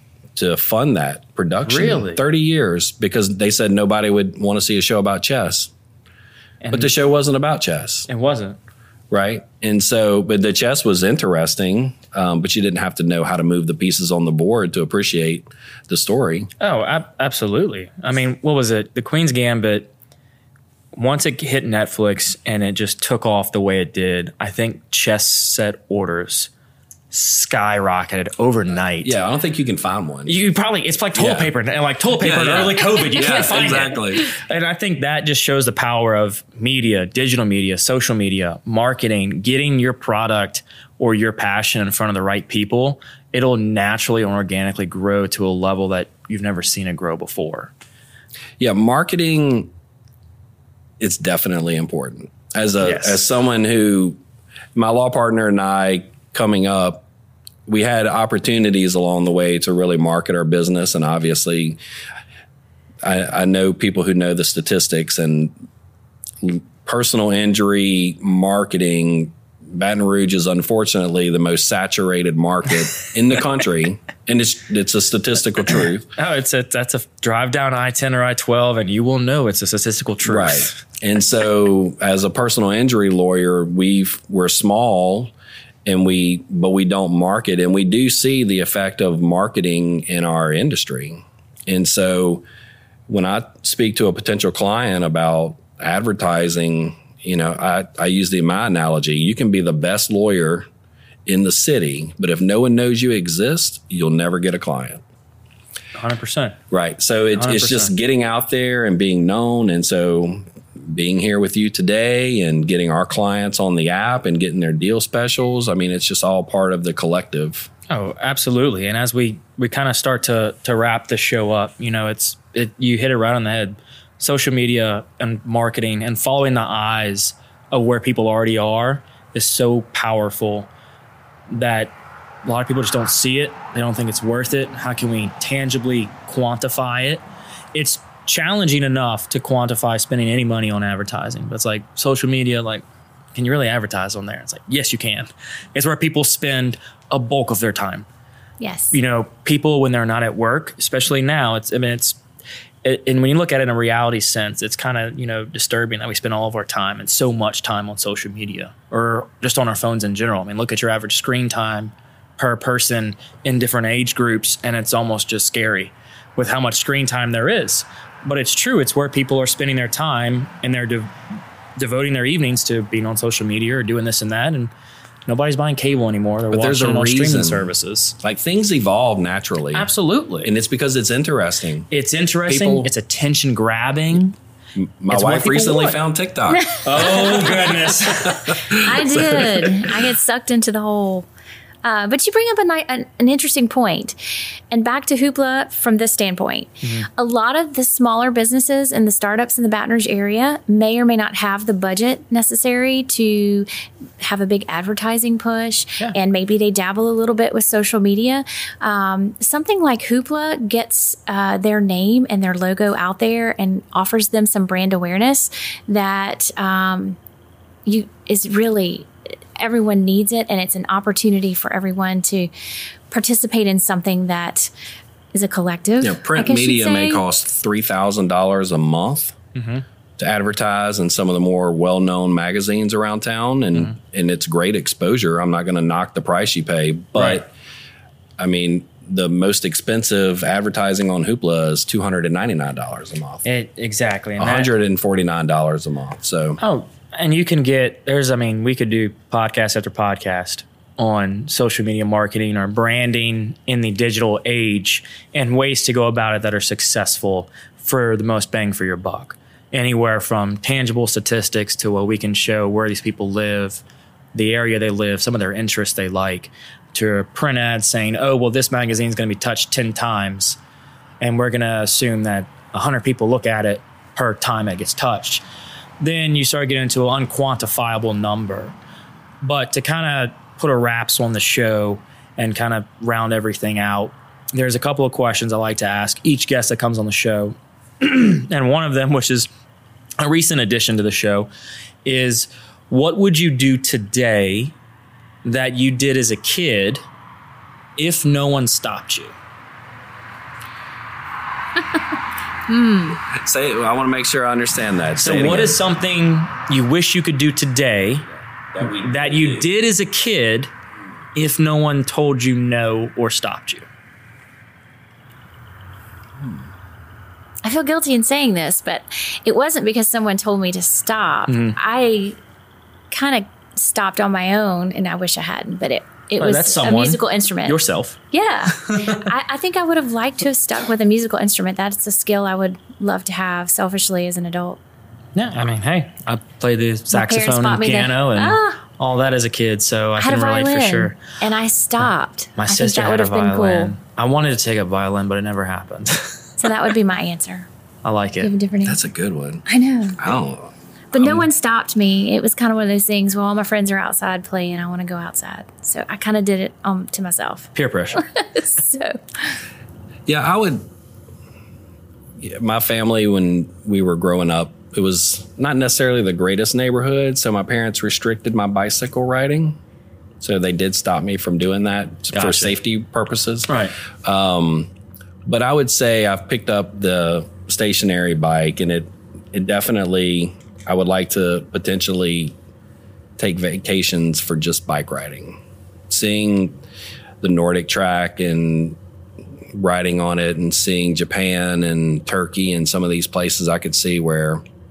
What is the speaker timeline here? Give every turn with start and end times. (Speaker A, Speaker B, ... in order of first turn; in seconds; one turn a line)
Speaker A: 0.3-5.7
Speaker B: 1.6-2.2
Speaker B: 6.6-6.9
Speaker A: 6.7-8.1
Speaker B: 8.1-8.6
Speaker A: 9.1-16.5
Speaker B: 16.6-19.9
Speaker B: 20.9-26.5
Speaker B: 27.1-29.2
Speaker A: 29.0-30.3
Speaker B: 30.3-47.7
Speaker A: 31.1-31.5
Speaker A: 32.2-34.4
Speaker A: 48.6-49.7
Speaker A: 51.0-54.2
Speaker B: 52.8-53.2
Speaker A: 54.7-57.0
Speaker A: 57.7-61.8
Speaker A: 63.0-65.5
Speaker A: 66.4-76.1
Speaker B: 76.2-80.7
Speaker A: 80.2-85.3
Speaker A: 85.8-92.4
Speaker A: 93.1-100.7
Speaker A: 101.2-105.0
Speaker B: 105.9-106.6
Speaker A: 106.7-117.7
Speaker B: 107.3-107.9
Speaker B: 117.9-130.7
Speaker B: 131.5-137.2
Speaker B: 137.7-148.1
Speaker C: 148.6-149.0
Speaker B: 148.9-152.2
Speaker B: 152.8-171.1
Speaker B: 171.8-174.7
Speaker B: 175.2-178.2
Speaker A: 176.5-177.7
Speaker A: 178.2-179.9
Speaker B: 179.7-180.5
Speaker A: 180.4-181.9
Speaker B: 181.9-184.3
Speaker A: 182.5-182.9
Speaker A: 184.8-189.7
Speaker B: 185.1-186.0
Speaker C: 186.5-187.7
Speaker B: 186.8-188.6
Speaker C: 188.7-191.3
Speaker C: 191.8-194.2
Speaker C: 194.7-203.7
Speaker B: 196.8-197.1
Speaker C: 204.2-217.2
Speaker C: 217.8-222.5
Speaker C: 223.1-224.7
Speaker C: 225.3-227.2
Speaker A: 226.0-229.4
Speaker B: 229.5-229.8
Speaker A: 230.2-237.5
Speaker A: 238.4-243.4
Speaker B: 243.4-244.7
Speaker A: 244.4-246.6
Speaker B: 246.6-263.8
Speaker B: 264.3-270.6
Speaker B: 271.2-275.4
Speaker B: 276.0-278.7
Speaker B: 279.4-289.5
Speaker B: 290.2-291.5
Speaker B: 292.0-294.7
Speaker B: 295.4-297.0
Speaker B: 298.0-299.3
Speaker C: 302.7-303.2
Speaker A: 303.2-305.8
Speaker B: 305.2-308.3
Speaker A: 308.7-309.6
Speaker B: 308.8-310.7
Speaker B: 311.3-313.9
Speaker C: 317.6-322.4
Speaker B: 321.5-321.8
Speaker C: 323.1-327.8
Speaker B: 326.4-328.2
Speaker C: 328.3-334.8
Speaker B: 328.7-329.3
Speaker B: 335.3-341.2
Speaker C: 337.1-338.8
Speaker C: 340.2-343.9
Speaker B: 342.6-346.6
Speaker C: 346.6-347.7
Speaker B: 348.0-348.5
Speaker C: 348.4-349.0
Speaker A: 348.8-349.6
Speaker C: 349.6-350.2
Speaker A: 350.2-351.4
Speaker C: 351.1-359.5
Speaker B: 357.7-358.3
Speaker A: 360.3-360.9
Speaker A: 362.4-369.8
Speaker A: 370.4-374.9
Speaker B: 372.3-372.7
Speaker B: 373.7-373.9
Speaker A: 375.4-382.5
Speaker A: 383.4-385.6
Speaker A: 386.1-386.8
Speaker A: 387.4-389.0
Speaker A: 389.7-394.6